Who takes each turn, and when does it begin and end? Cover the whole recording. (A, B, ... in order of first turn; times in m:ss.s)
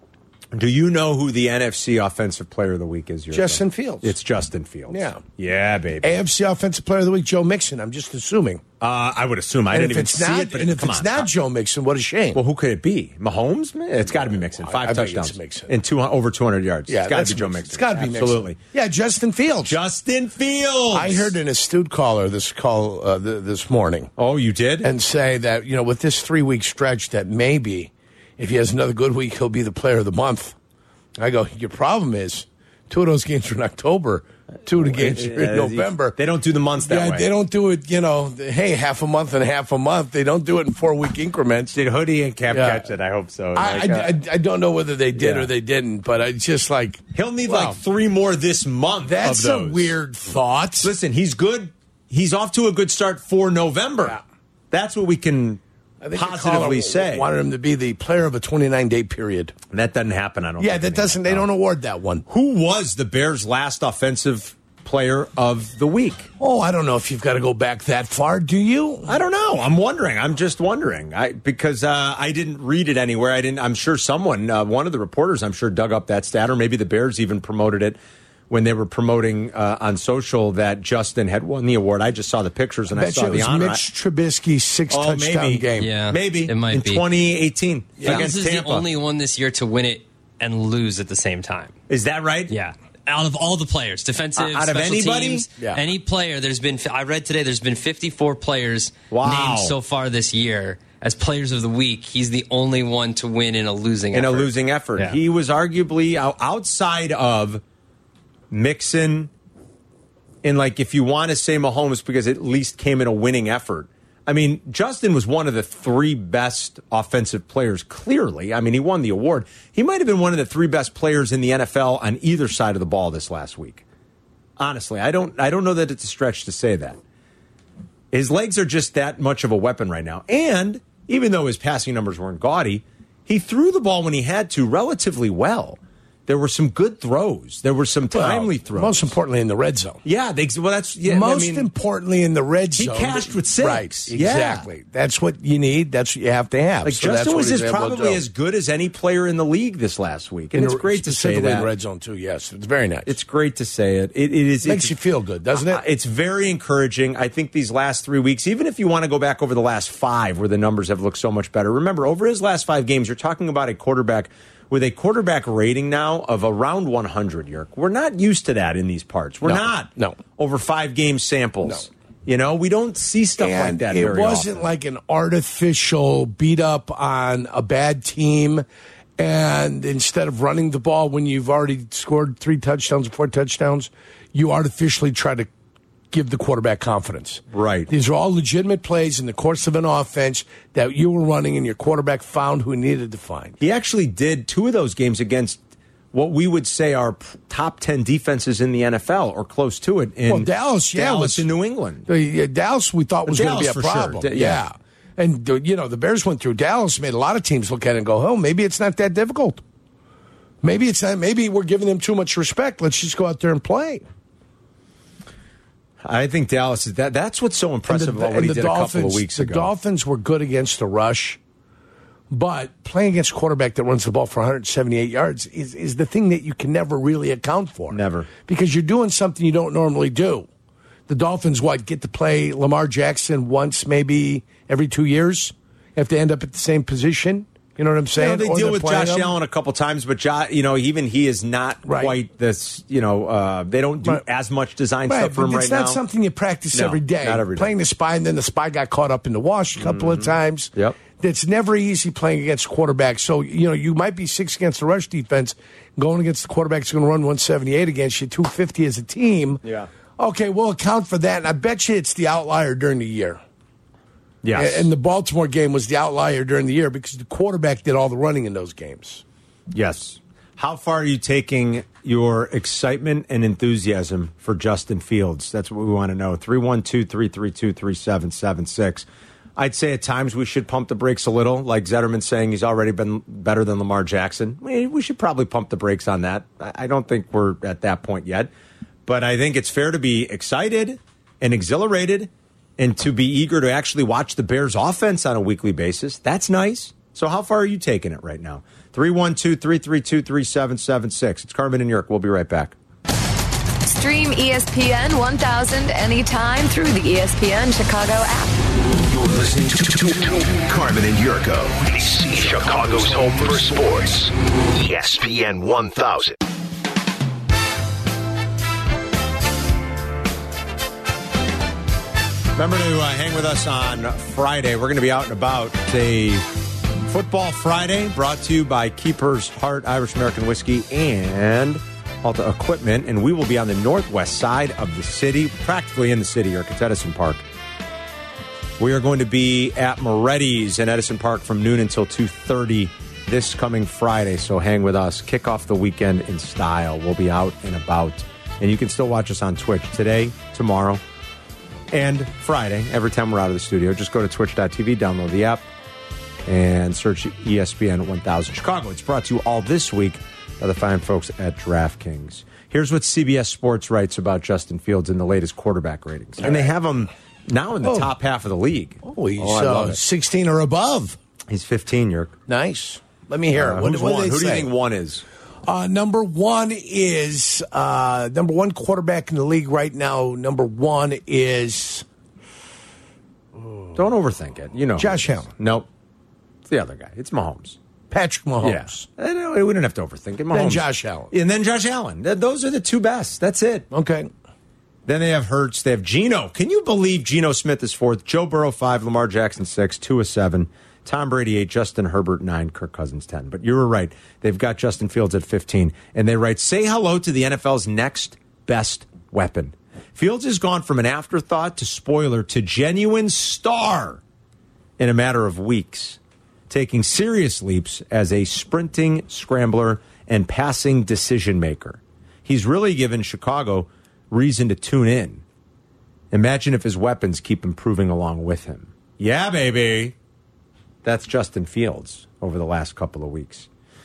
0:00.5-0:06.2 A
0:03.3-0:04.1 B
0:04.9-0:05.2 B
0:06.0-0:08.6 B
0:08.8-0:11.3 A
0:09.7-0:12.4 B
0:12.3-0:18.6 A
0:14.0-0:15.7 B
0:16.9-0:19.8 B
0:19.6-0:21.4 A
0:20.9-0:24.1 B
0:24.2-0:24.9 A
0:24.8-0:30.6 B
0:31.2-0:36.1 B
0:34.6-0:37.3 A
0:36.8-0:41.7 B
0:41.7-0:44.1 A
0:42.5-0:42.8 B
0:43.5-0:47.8 B
0:45.1-0:45.5 A
0:47.1-0:50.0 A
0:49.0-0:50.9 B
0:50.8-0:54.2 A
0:54.7-0:55.6 A
0:56.0-0:59.5 B
0:56.1-0:57.3 A
0:59.7-1:01.5 A
1:00.6-1:02.2 B
1:02.3-1:06.3 A
1:06.4-1:09.1 B
1:09.1-1:18.0 A
1:18.5-1:23.8 A
1:22.9-1:25.9 B
1:24.9-1:28.9 A
1:25.8-1:27.0 C
1:28.0-1:28.3 B
1:28.0-1:31.7 C
1:31.9-1:32.5 A
1:32.5-1:45.2 C
1:34.4-1:35.5 A
1:39.1-1:39.7 A
1:44.1-1:47.6 A
1:48.5-1:49.3 A
1:50.4-2:03.8 A
2:04.6-2:07.0 A
2:08.1-2:19.1 A
2:18.1-2:20.0 B
2:20.0-2:21.7 A
2:21.1-2:28.2 B
2:22.8-2:24.7 A
2:26.8-2:31.7 A
2:30.5-2:33.1 B
2:33.0-2:34.9 A
2:34.6-2:35.8 B
2:35.5-2:54.7 A
2:49.4-2:50.2 B
2:53.4-2:58.6 B
2:59.2-3:05.5 B
3:06.1-3:13.6 B
3:07.5-3:07.9 A
3:13.6-3:15.6 A
3:16.1-3:22.1 A
3:20.3-3:21.5 B
3:22.1-3:29.6 B
3:23.2-3:24.6 A
3:30.6-3:34.0 B
3:36.0-3:39.7 A
3:37.9-3:41.4 B
3:42.3-3:50.5 B
3:47.9-3:48.3 A
3:51.1-3:59.3 B
3:58.1-4:06.0 A
4:01.8-4:02.2 B
4:05.1-4:19.6 B
4:06.7-4:07.7 A
4:09.8-4:11.0 A
4:19.6-4:19.9 A
4:20.2-4:23.4 B
4:24.4-4:24.9 A
4:24.5-4:29.2 B
4:29.7-4:48.5 A
4:49.0-5:02.8 A
5:03.8-5:08.6 D
5:09.1-5:16.4 E
5:22.5-5:26.5 A
5:27.0-5:37.4 A
5:38.8-5:51.0 A
5:51.9-5:55.6 A
5:56.4-6:10.0 A
6:06.4-6:06.7 B
6:07.8-6:08.1 B
6:09.0-6:11.2 B
6:11.5-6:12.3 A
6:12.5-6:14.7 B
6:13.5-6:15.2 A
6:15.6-6:22.0 B
6:23.9-6:25.9 A
6:25.0-6:25.5 B
6:26.7-6:27.8 A
6:28.1-6:29.1 B
6:28.6-6:33.9 A
6:30.5-6:31.3 B
6:33.9-6:34.3 B
6:35.0-6:54.2 A
6:55.0-7:05.4 A
7:06.3-7:10.1 A
7:11.0-7:13.7 A